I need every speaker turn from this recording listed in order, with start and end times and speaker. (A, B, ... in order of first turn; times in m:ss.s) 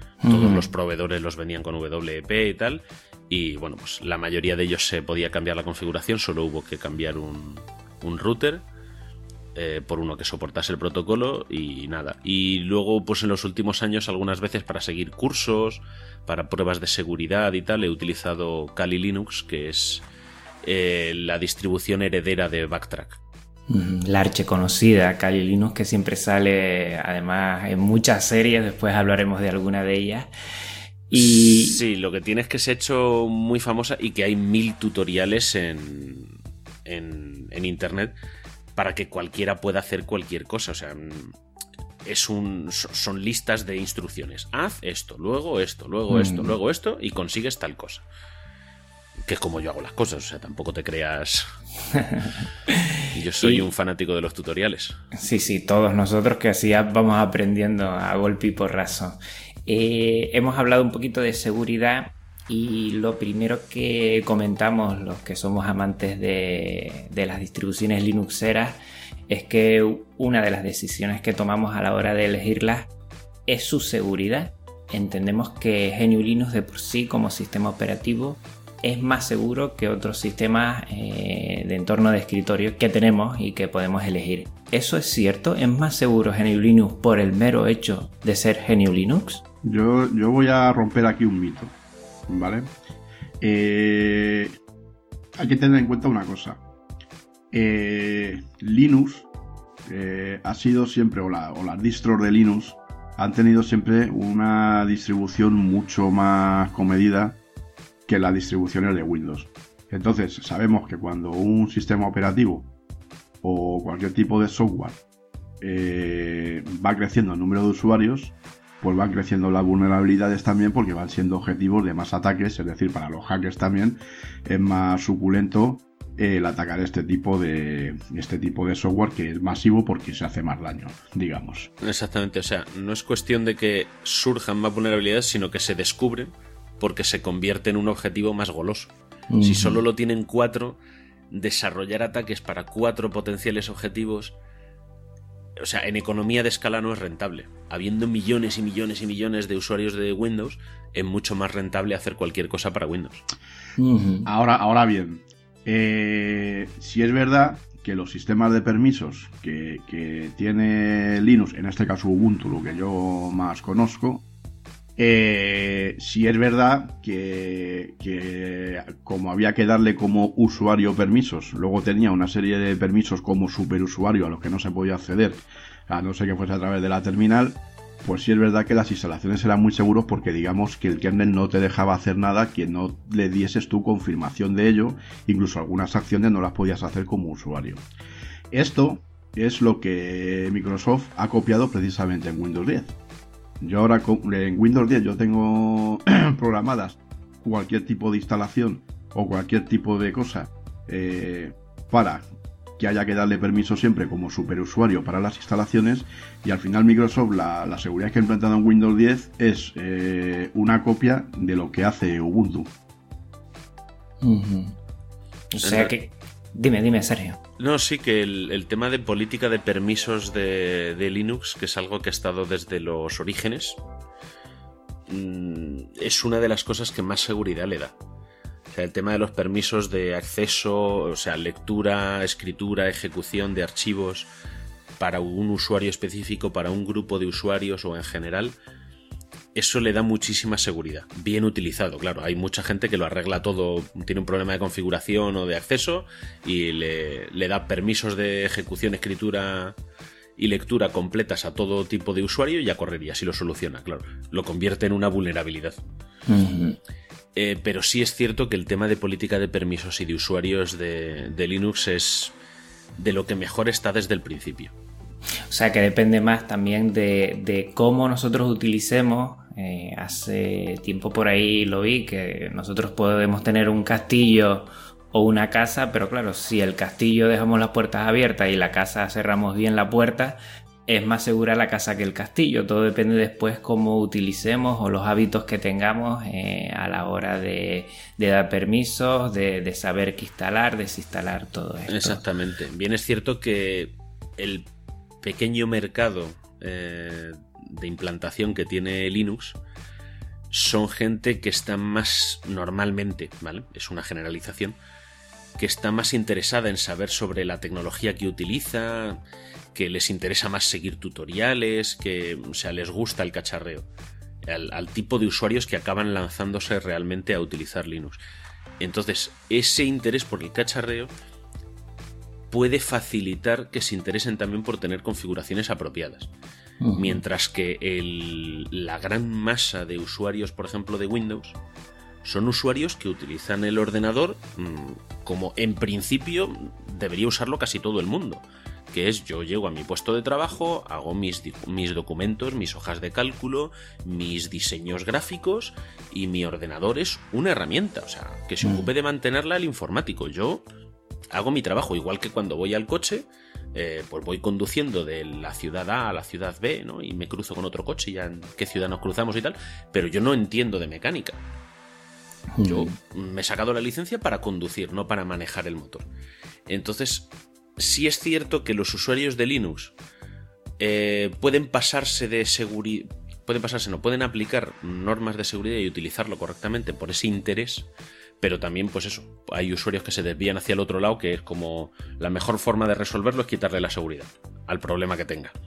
0:00.2-0:00.7 A
0:00.2-0:08.6 B
0:09.5-0:20.0 B
0:20.6-0:23.2 B
0:23.7-0:30.3 A
0:31.1-0:31.8 A
0:31.1-0:36.3 B
0:36.8-0:38.1 B
0:38.8-0:41.3 B
0:42.0-0:48.0 B
0:46.1-0:46.5 A
0:49.2-0:51.4 B
0:51.9-0:52.3 A
0:53.0-0:53.6 A
0:53.1-0:55.0 B
0:55.2-1:12.9 A
1:13.5-1:29.4 A
1:29.6-1:31.7 C
1:32.3-1:32.7 C
1:33.4-1:34.6 C
1:35.4-1:36.6 C
1:37.5-1:39.3 C
1:39.9-1:47.4 C
1:48.1-1:52.7 C
1:53.4-1:55.0 C
1:55.6-2:11.7 C
2:11.8-2:20.8 B
2:19.3-2:19.8 A
2:21.3-2:24.3 B
2:25.6-2:33.2 B
2:33.8-2:34.3 A
2:34.2-2:44.2 C
2:45.0-3:07.8 C
3:08.5-3:13.0 C
3:13.6-3:22.2 C
3:22.8-3:32.7 C
3:34.2-3:34.8 A
3:35.5-3:37.4 A
3:35.6-3:35.9 B
3:37.6-3:43.8 B
3:45.1-3:47.9 B
3:48.7-3:54.3 B
3:55.0-3:58.5 B
3:59.5-4:09.8 B
4:10.4-4:15.8 B
4:16.3-4:16.8 A
4:17.3-4:22.3 B
4:23.0-4:24.7 B
4:25.5-4:52.2 A
4:51.9-4:54.7 B
4:55.2-4:59.6 B
5:00.5-5:04.8 B
5:05.6-5:09.2 B
5:09.7-5:13.9 B
5:14.4-5:18.2 B
5:18.8-5:21.1 B
5:22.5-5:26.3 B
5:26.8-5:27.2 A
5:27.0-5:31.6 B
5:32.2-5:50.6 B
5:51.3-6:01.4 B
6:02.5-6:02.9 A
6:02.6-6:06.0 B
6:06.7-6:09.9 B
6:10.8-6:17.9 B
6:18.4-6:25.5 B